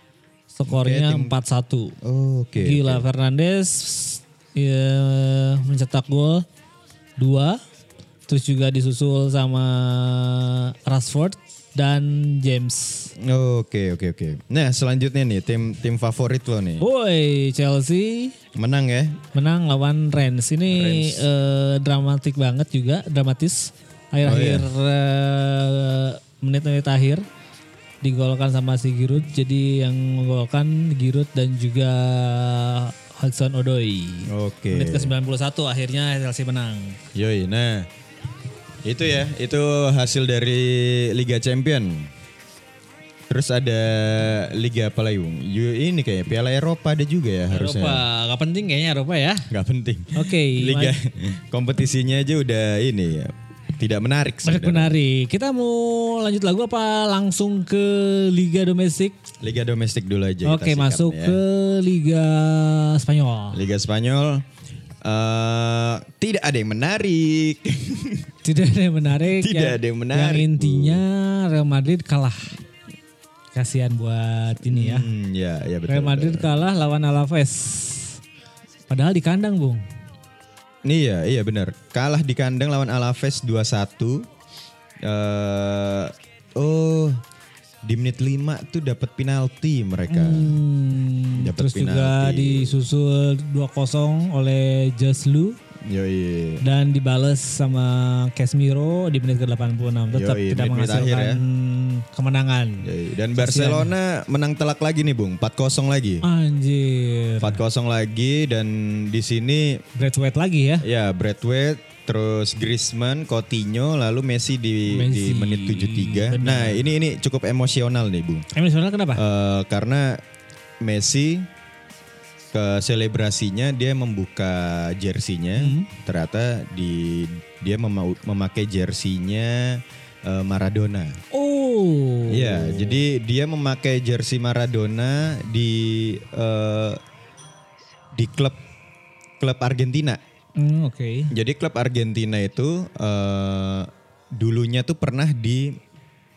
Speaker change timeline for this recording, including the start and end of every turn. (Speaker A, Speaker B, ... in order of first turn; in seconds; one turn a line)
Speaker A: 0.5-1.9
Speaker B: 0.7-1.3
Speaker B: 2.0-3.0
Speaker A: 2.6-6.4
Speaker A: 7.2-7.6
Speaker A: 8.3-13.1
Speaker B: 13.2-16.8
Speaker A: 16.8-18.3
Speaker B: 18.5-19.2
Speaker A: 19.3-27.2
Speaker B: 20.7-21.2
Speaker B: 24.2-24.7
Speaker A: 28.0-37.0
Speaker B: 34.3-35.1
Speaker B: 37.1-37.9
Speaker B: 38.8-42.1
Speaker B: 43.3-48.0
Speaker A: 47.5-49.5
Speaker B: 49.5-54.9
Speaker A: 50.1-50.9
Speaker A: 54.4-59.2
Speaker B: 59.4-61.4
Speaker A: 60.4-63.6
Speaker B: 63.5-64.4
Speaker B: 65.0-68.3
Speaker A: 68.4-72.5
Speaker B: 69.3-71.0
Speaker A: 73.5-75.1
Speaker B: 74.6-76.5
Speaker A: 75.9-78.2
Speaker A: 78.9-79.8
Speaker B: 80.8-84.2
Speaker B: 85.0-87.2
Speaker B: 87.8-90.6
Speaker A: 90.1-95.6
Speaker B: 91.4-92.8
Speaker B: 95.8-96.6
Speaker A: 96.6-103.9
Speaker B: 100.1-101.4
Speaker B: 102.8-106.2
Speaker A: 106.2-107.6
Speaker B: 107.4-109.8
Speaker A: 110.0-110.8
Speaker B: 110.8-118.5
Speaker A: 114.9-116.8
Speaker A: 118.5-119.2
Speaker B: 119.2-120.2
Speaker B: 120.8-121.5
Speaker B: 122.5-131.2
Speaker A: 125.6-125.9
Speaker A: 131.3-133.0
Speaker B: 132.3-137.0
Speaker B: 138.1-138.6
Speaker B: 139.4-140.2
Speaker A: 140.6-141.3
Speaker B: 141.3-145.8